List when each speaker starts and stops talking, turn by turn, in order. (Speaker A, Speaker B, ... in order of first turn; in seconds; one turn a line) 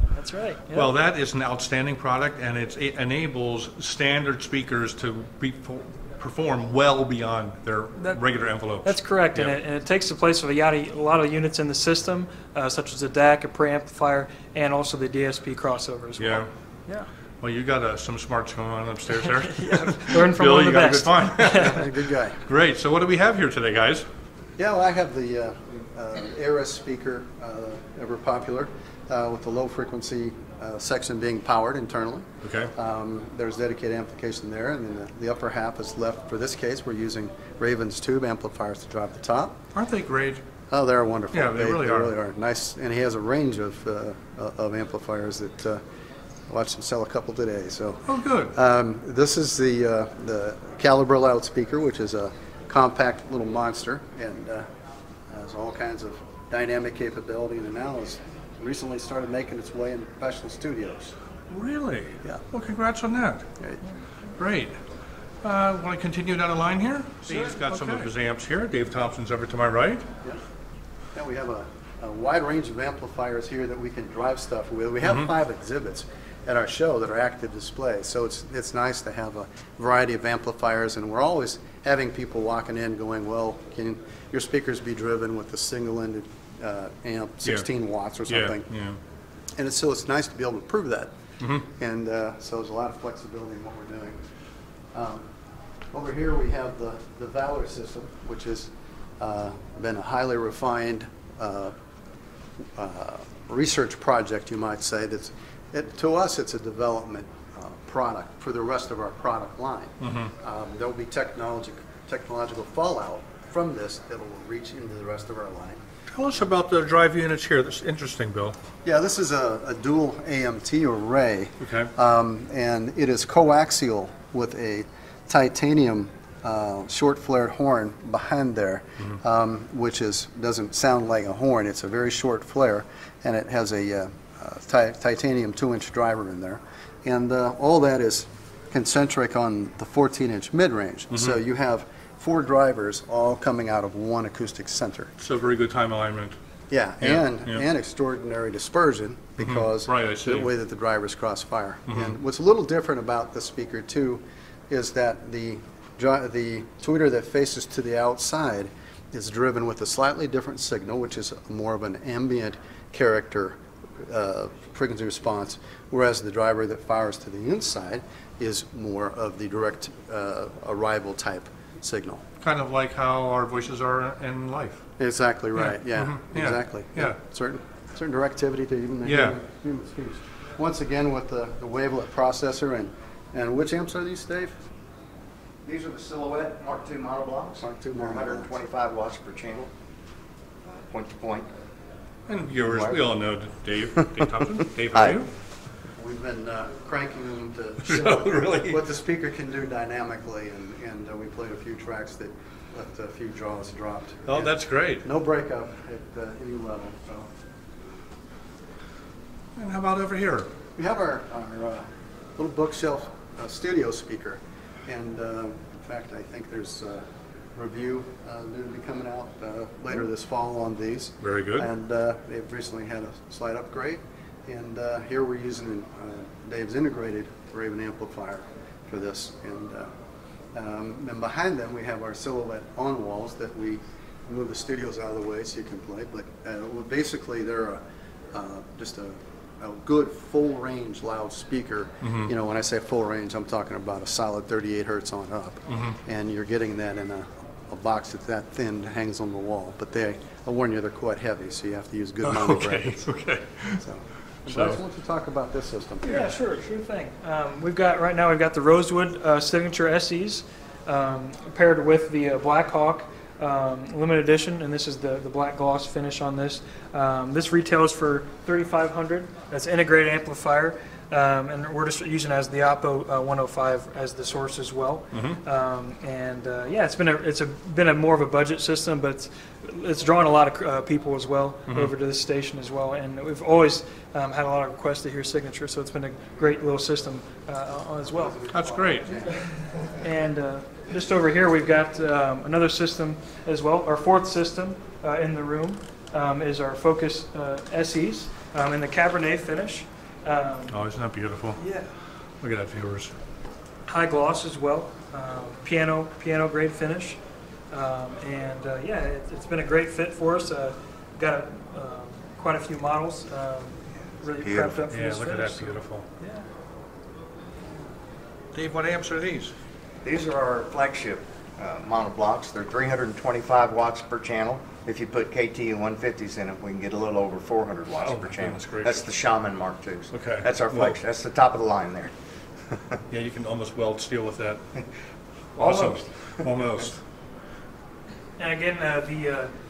Speaker A: 0.1-0.9
Speaker B: 0.7-9.6
Speaker A: 8.8-17.1
Speaker B: 16.2-16.5
Speaker B: 17.4-21.9
Speaker A: 19.2-21.8
Speaker C: 21.5-22.4
Speaker B: 22.4-24.1
Speaker C: 24.6-39.6
Speaker B: 32.4-32.7
Speaker B: 39.8-40.4
Speaker C: 40.7-45.8
Speaker B: 41.3-42.1
Speaker C: 46.5-54.7
Speaker B: 48.1-48.5
Speaker C: 55.3-61.1
Speaker B: 61.5-63.5
Speaker B: 64.4-64.8
Speaker B: 65.4-70.0
Speaker C: 67.3-67.6
Speaker C: 71.1-88.7
Speaker B: 75.0-75.3
Speaker B: 88.3-89.0
Speaker C: 89.6-94.2
Speaker C: 94.9-95.3
Speaker C: 95.9-101.7
Speaker C: 102.8-115.8
Speaker B: 110.0-110.3
Speaker B: 116.1-118.6
Speaker C: 118.8-145.1
Speaker B: 121.6-121.9
Speaker B: 141.1-141.4
Speaker B: 145.2-146.4
Speaker C: 146.7-172.2
Speaker B: 147.0-147.7
Speaker B: 149.4-150.5
Speaker B: 151.9-152.2
Speaker B: 172.4-174.8
Speaker C: 175.0-184.6
Speaker B: 175.6-177.2
Speaker B: 179.0-179.4
Speaker D: 185.6-189.7
Speaker C: 187.6-188.5
Speaker D: 190.7-191.5
Speaker B: 192.3-195.3
Speaker D: 192.6-193.1
Speaker D: 194.9-195.2
Speaker C: 196.0-207.3
Speaker B: 197.8-198.8
Speaker B: 204.3-205.1
Speaker B: 209.6-210.5
Speaker C: 210.8-211.8
Speaker C: 212.4-217.0
Speaker C: 217.6-229.9
Speaker B: 221.2-221.7
Speaker C: 230.6-237.8
Speaker C: 238.3-253.1
Speaker B: 242.0-242.3
Speaker B: 245.7-246.0
Speaker B: 252.2-253.8
Speaker C: 253.8-256.3
Speaker B: 254.5-254.8
Speaker A: 256.0-288.4
Speaker B: 275.1-275.4
Speaker C: 288.0-289.4
Speaker B: 288.5-289.1
Speaker A: 290.0-300.8
Speaker B: 300.7-301.6
Speaker A: 301.6-301.9
Speaker B: 302.4-303.1
Speaker A: 303.9-307.2
Speaker A: 307.7-316.5
Speaker D: 314.3-314.8
Speaker B: 314.9-316.1
Speaker B: 318.5-319.5
Speaker D: 320.0-332.1
Speaker B: 328.0-329.1
Speaker B: 330.1-331.0
Speaker D: 332.7-333.0
Speaker B: 333.1-334.6
Speaker B: 335.6-337.0
Speaker D: 335.6-336.4
Speaker A: 338.4-339.5